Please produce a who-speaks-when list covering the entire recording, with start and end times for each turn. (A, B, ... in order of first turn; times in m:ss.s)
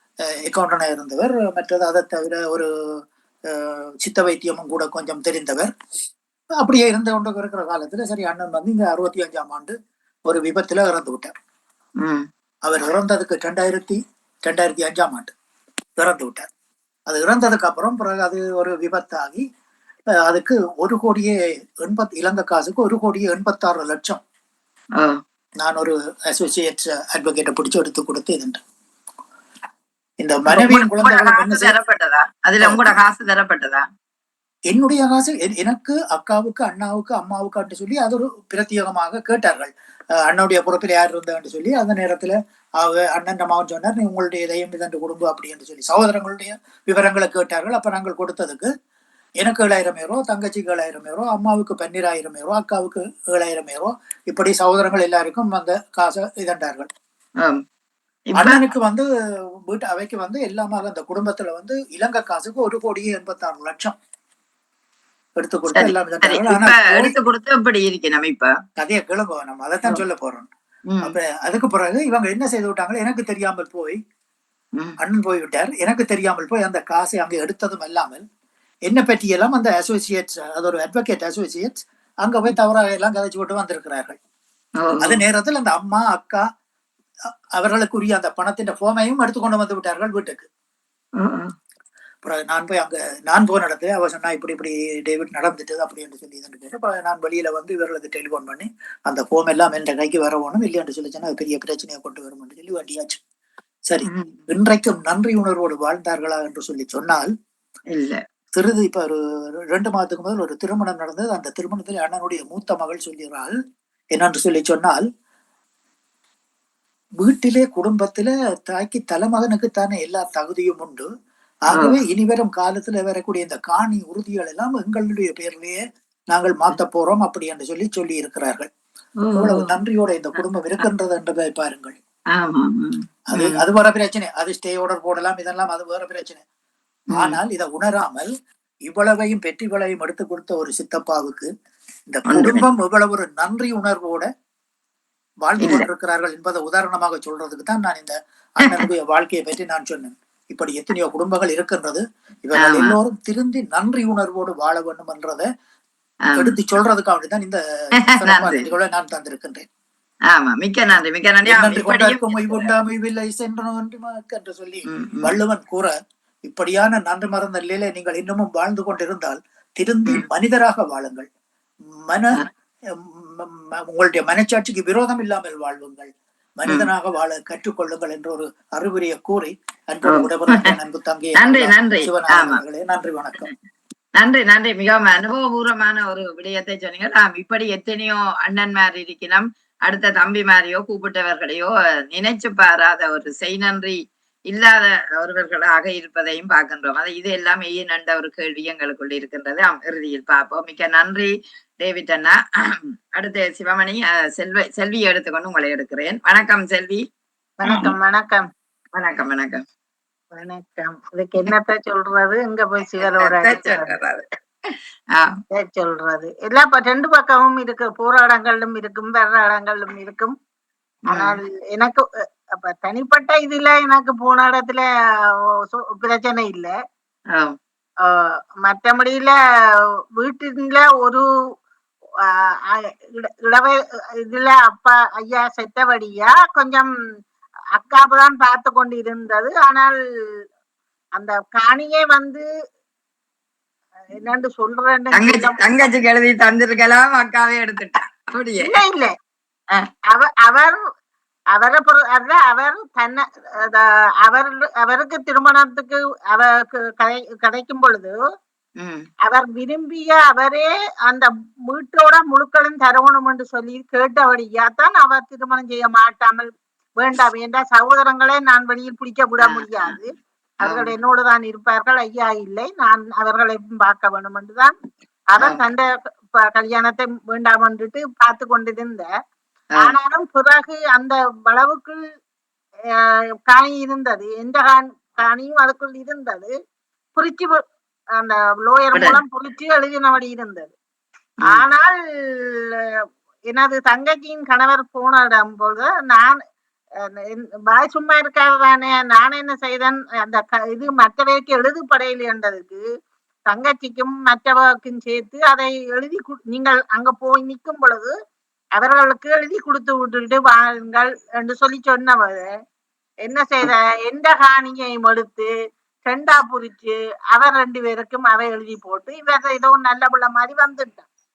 0:00.4-0:02.7 A
0:03.5-0:05.7 A
0:06.6-0:09.7 A
0:10.3-0:11.3 A
0:12.6-0:15.3 A
0:16.0-0:16.4 A
0:17.1-0:19.4 A
0:20.2-0:24.2 A
0:25.6-0:28.6 A
0:30.2-0:31.7 A
0:30.5-0:33.8 B
0:32.6-0:33.0 A
0:34.7-0:39.7 A
0:40.3-0:48.7 A
0:49.4-0:56.9 A
0:58.3-0:58.6 B
0:58.4-0:59.0 A
0:59.7-1:04.0 A
1:05.4-1:07.1 A
1:05.8-1:08.5 B
1:08.8-1:10.5 A
1:11.0-1:14.0 A
1:15.0-1:18.2 A
1:18.9-1:24.2 A
1:24.8-1:25.2 B
1:25.0-1:26.4 A
1:27.6-1:30.5 A
1:31.2-1:31.5 B
1:32.2-1:43.2 A
1:43.9-1:47.3 A
1:44.0-1:44.4 B
1:47.9-1:48.2 B
1:48.5-1:49.2 A
1:49.7-1:53.5 A
1:54.1-1:55.0 A
1:57.2-2:01.1 A
2:01.7-2:05.8 A
2:06.3-2:08.7 A
2:09.2-2:09.7 B
2:09.4-2:12.0 A
2:12.3-2:13.6 B
2:13.3-2:16.4 A
2:17.1-2:17.4 B
2:17.1-2:18.3 A
2:18.9-2:21.5 A
2:22.1-2:24.3 A
2:22.3-2:22.6 B
2:25.4-2:35.5 A
2:25.6-2:25.8 B
2:32.6-2:32.9 B
2:36.2-2:36.5 B
2:36.4-2:37.6 A
2:38.1-2:38.7 B
2:38.2-2:39.6 A
2:40.3-2:42.7 B
2:41.4-2:45.9 A
2:44.9-2:45.3 B
2:46.4-2:51.3 A
2:52.1-3:03.5 A
3:00.1-3:00.7 B
3:01.4-3:02.6 B
3:04.2-3:14.0 B
3:14.5-3:27.0 B
3:27.6-3:28.4 C
3:27.6-3:27.9 B
3:28.9-3:29.6 B
3:30.3-3:34.0 C
3:33.0-3:35.4 B
3:35.5-3:40.3 C
3:41.1-3:42.0 C
3:41.1-3:41.4 B
3:42.6-3:44.9 C
3:45.7-3:46.7 C
3:48.0-3:49.3 C
3:50.2-3:51.2 C
3:52.7-3:56.9 C
3:57.8-3:59.9 C
4:01.2-4:02.4 C
4:04.1-4:05.6 C
4:05.1-4:08.7 B
4:08.6-4:09.1 C
4:10.1-4:10.8 C
4:11.5-4:18.2 C
4:18.8-4:19.0 B
4:19.2-4:30.1 C
4:29.4-4:30.0 B
4:30.6-4:30.9 B
4:30.6-4:34.7 C
4:35.3-4:39.1 C
4:39.8-4:42.0 C
4:43.0-4:46.5 C
4:47.2-4:47.6 C
4:48.2-4:50.7 C
4:48.9-4:49.2 B
4:51.4-4:52.5 C
4:53.5-4:56.4 C
4:57.0-5:02.8 C
5:03.5-5:08.1 C
5:08.8-5:12.5 C
5:13.2-5:15.5 C
5:16.0-5:21.0 C